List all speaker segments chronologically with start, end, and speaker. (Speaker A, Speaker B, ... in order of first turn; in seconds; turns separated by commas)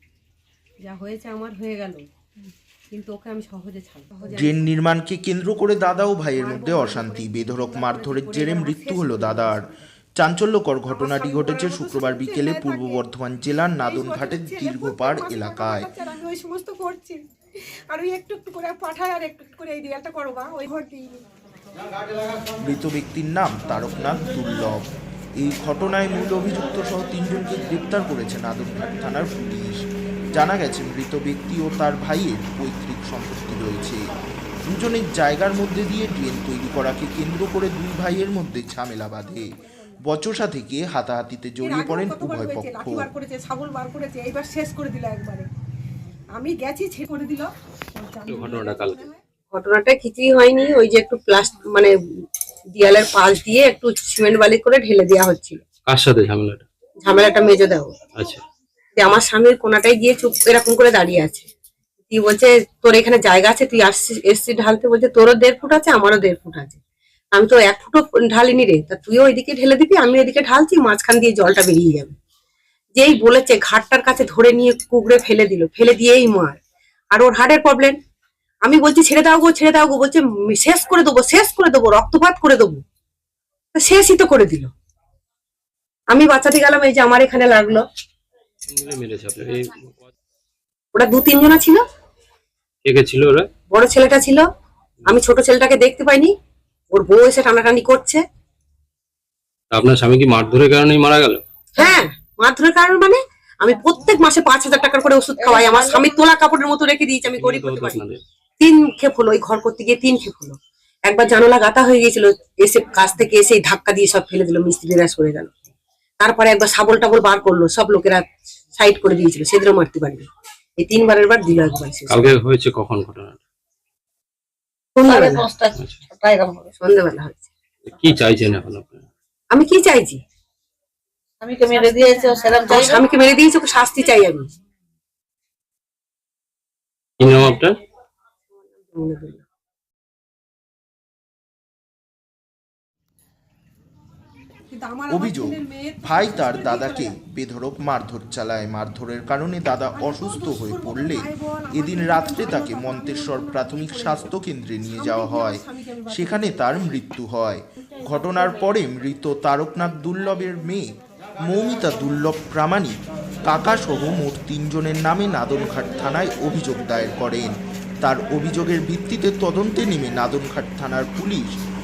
Speaker A: 0.8-2.0, Speaker A: 2.9-4.6, Speaker B: 4.3-9.7, Speaker A: 6.3-9.6, Speaker B: 10.2-15.9, Speaker A: 10.9-13.0, Speaker A: 13.8-17.2, Speaker A: 17.9-21.2, Speaker B: 22.6-34.0, Speaker B: 34.6-39.5, Speaker A: 39.2-39.9, Speaker B: 40.0-43.1, Speaker A: 41.6-45.5, Speaker A: 46.4-49.2, Speaker C: 48.3-49.0, Speaker D: 49.5-51.9, Speaker D: 52.7-55.6, Speaker C: 55.9-56.6, Speaker D: 57.0-57.9, Speaker D: 59.0-61.5, Speaker D: 62.1-66.8, Speaker D: 67.3-72.1, Speaker D: 72.9-76.6, Speaker D: 77.1-78.0, Speaker D: 78.6-82.8, Speaker D: 83.7-84.7, Speaker D: 86.1-87.8, Speaker C: 88.7-90.1, Speaker D: 90.9-91.8, Speaker C: 92.8-93.5, Speaker D: 93.7-94.5, Speaker D: 95.0-96.3, Speaker D: 96.9-98.2, Speaker C: 99.7-101.4, Speaker D: 101.8-108.0, Speaker E: 105.4-106.3, Speaker C: 107.2-108.2, Speaker D: 108.6-115.5, Speaker D: 116.2-120.2, Speaker D: 120.8-122.3, Speaker C: 122.1-123.4, Speaker D: 125.0-125.5, Speaker E: 125.0-126.7, Speaker C: 125.8-126.0, Speaker D: 126.8-127.4, Speaker C: 127.9-129.1, Speaker D: 129.5-130.2, Speaker E: 131.4-133.0, Speaker D: 132.7-134.5, Speaker C: 137.2-137.8, Speaker D: 138.9-139.4, Speaker A: 144.7-147.2, Speaker B: 145.1-171.6, Speaker A: 149.9-154.3, Speaker A: 154.9-156.9